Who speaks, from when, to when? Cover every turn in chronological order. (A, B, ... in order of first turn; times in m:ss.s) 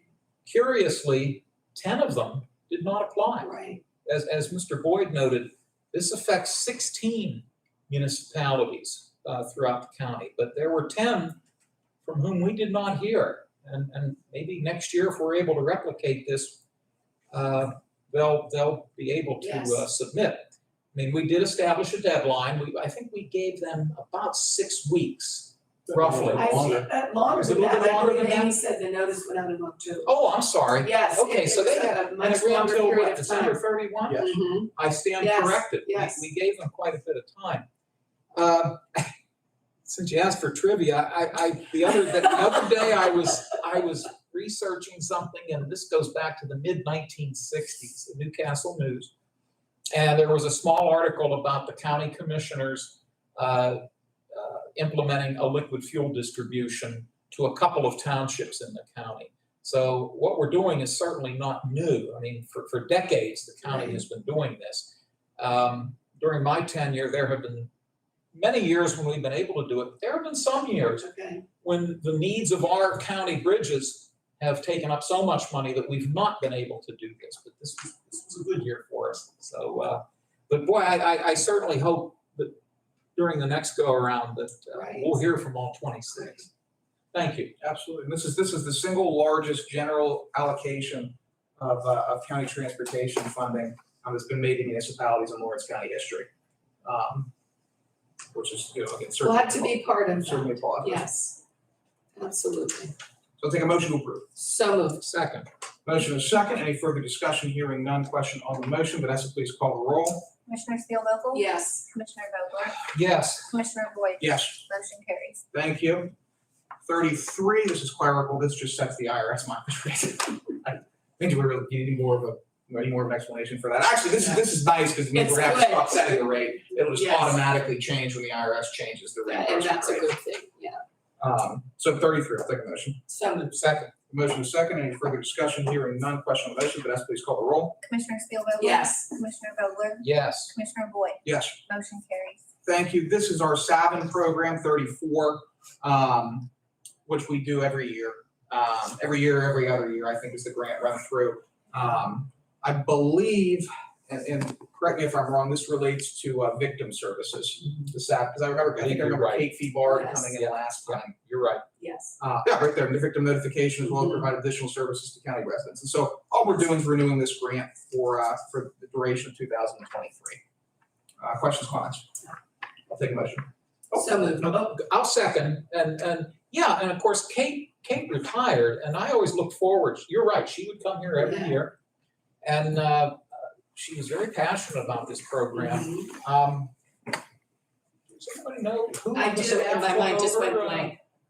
0:00.4-0:03.5 A
0:03.4-0:03.8 B
0:04.0-0:11.4 A
0:12.0-0:16.6 A
0:17.3-0:26.8 A
0:19.4-0:19.8 B
0:25.9-0:26.9 C
0:26.3-0:30.2 B
0:27.3-0:28.5 A
0:30.0-0:37.7 A
0:30.8-0:33.6 B
0:34.2-0:36.3 B
0:38.3-0:39.1 A
0:39.8-0:49.1 A
0:49.9-1:07.7 A
1:08.3-1:11.1 A
1:11.0-1:11.4 B
1:11.6-1:22.6 A
1:23.2-1:26.5 A
1:24.8-1:25.2 B
1:27.1-1:27.5 A
1:27.6-1:36.3 C
1:36.8-1:37.3 C
1:38.3-1:41.0 C
1:39.2-1:41.4 B
1:42.2-1:42.9 B
1:43.4-1:44.3 C
1:44.4-1:45.0 B
1:45.0-1:45.5 A
1:45.8-1:50.3 C
1:50.5-1:52.9 D
1:51.3-1:51.9 B
1:52.9-1:53.5 A
1:53.4-1:55.4 D
1:54.2-1:54.6 C
1:55.5-1:56.1 C
1:56.8-2:10.1 C
2:05.1-2:07.4 B
2:09.3-2:10.8 B
2:11.2-2:13.0 C
2:13.1-2:13.6 B
2:13.5-2:13.9 A
2:14.1-2:17.8 C
2:17.8-2:22.4 D
2:18.6-2:19.1 B
2:20.0-2:20.5 A
2:21.2-2:21.6 C
2:22.6-2:26.5 C
2:27.1-2:41.1 C
2:38.8-2:39.5 A
2:39.8-2:40.3 B
2:40.3-2:41.6 A
2:41.8-2:42.2 B
2:42.2-2:50.4 C
2:44.0-2:44.3 B
2:51.2-2:52.1 C
2:52.9-2:53.5 C
2:53.9-2:54.8 B
2:54.4-3:01.8 A
3:01.2-3:01.6 B
3:02.4-3:06.7 A
3:05.6-3:06.1 B
3:08.1-3:10.9 A
3:09.1-3:11.0 B